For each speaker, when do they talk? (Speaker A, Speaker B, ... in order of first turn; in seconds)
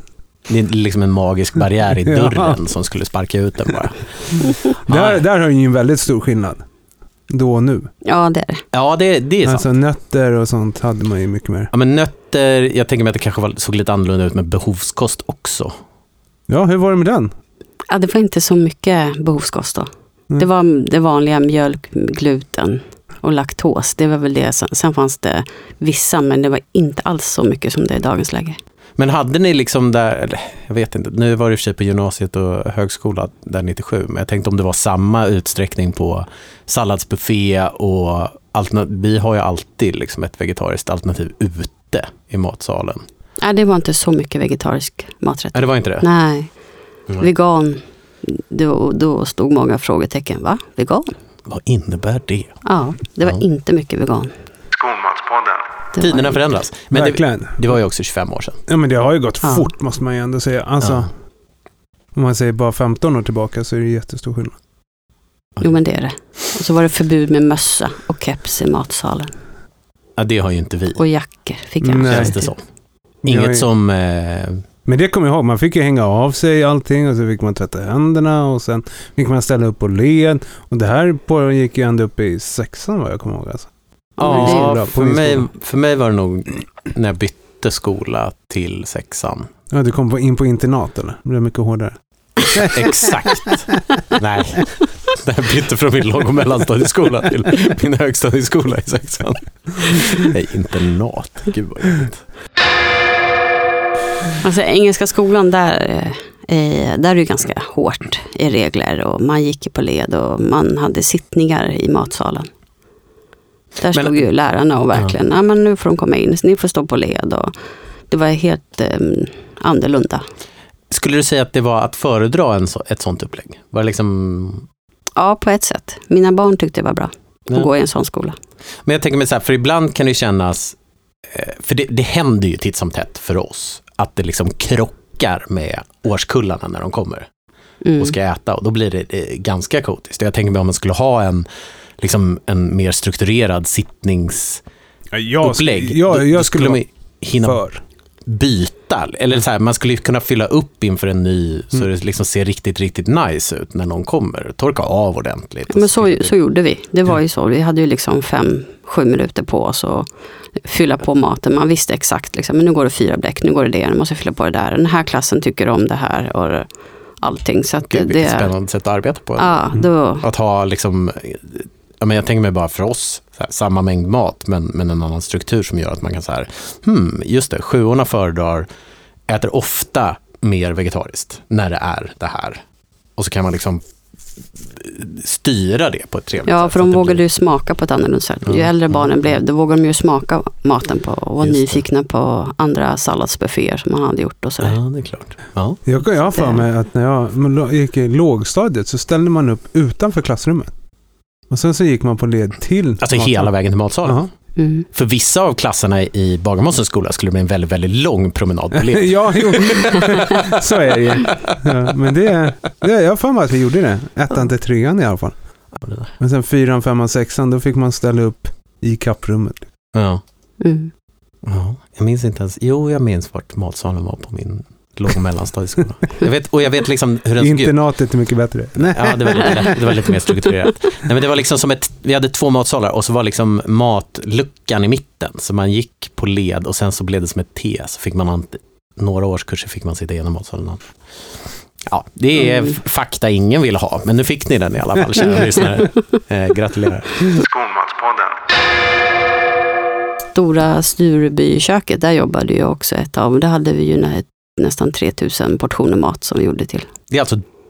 Speaker A: 0.5-5.2, 8.7-9.7, 11.7-15.7, 29.0-43.0, 45.5-46.0, 51.5-52.5, 56.0-58.6, 60.8-61.0, 70.2-71.0, 72.0-72.6, 73.2-74.6, 84.2-89.5, 92.6-102.2, 120.9-124.7, 128.8-130.8, 131.3-137.3, 138.0-141.5, 142.0-144.6, 145.4-147.6, 148.2-156.3, 167.9-178.7, 179.3-182.6, 183.2-183.8, 184.6-187.2, 188.4-189.1, 191.4-191.8, 194.6-195.8, 203.0-204.3, 204.9-210.6, 215.8-216.1, 219.9-220.2, 221.4-227.8, 228.8-240.8, 241.8-247.3, 257.1-257.4
Speaker B: 2.0-2.6, 4.8-6.6, 7.3-7.9, 9.4-11.7, 16.5-17.3, 56.9-57.7, 58.7-61.1, 62.1-64.5, 71.8-72.3, 73.3-73.7, 74.8-83.7, 84.2-85.5, 89.7-92.9, 145.1-146.8, 147.4-147.8, 195.8-200.7, 201.5-203.5, 208.7-215.3, 216.2-219.6, 227.4-229.7
Speaker C: 8.0-8.6, 17.9-28.6, 43.4-46.5, 47.2-51.1, 52.6-54.3, 55.9-56.4, 65.6-69.3, 71.0-72.5, 84.2-84.8, 104.4-112.5, 113.8-117.5, 118.1-120.2, 125.2-128.3, 137.8-138.2, 155.7-160.1, 160.6-166.7, 167.2-168.5, 169.4-170.2, 186.5-194.8, 196.3-196.6, 204.6-204.9, 220.6-220.9, 242.4-242.7, 250.3-256.9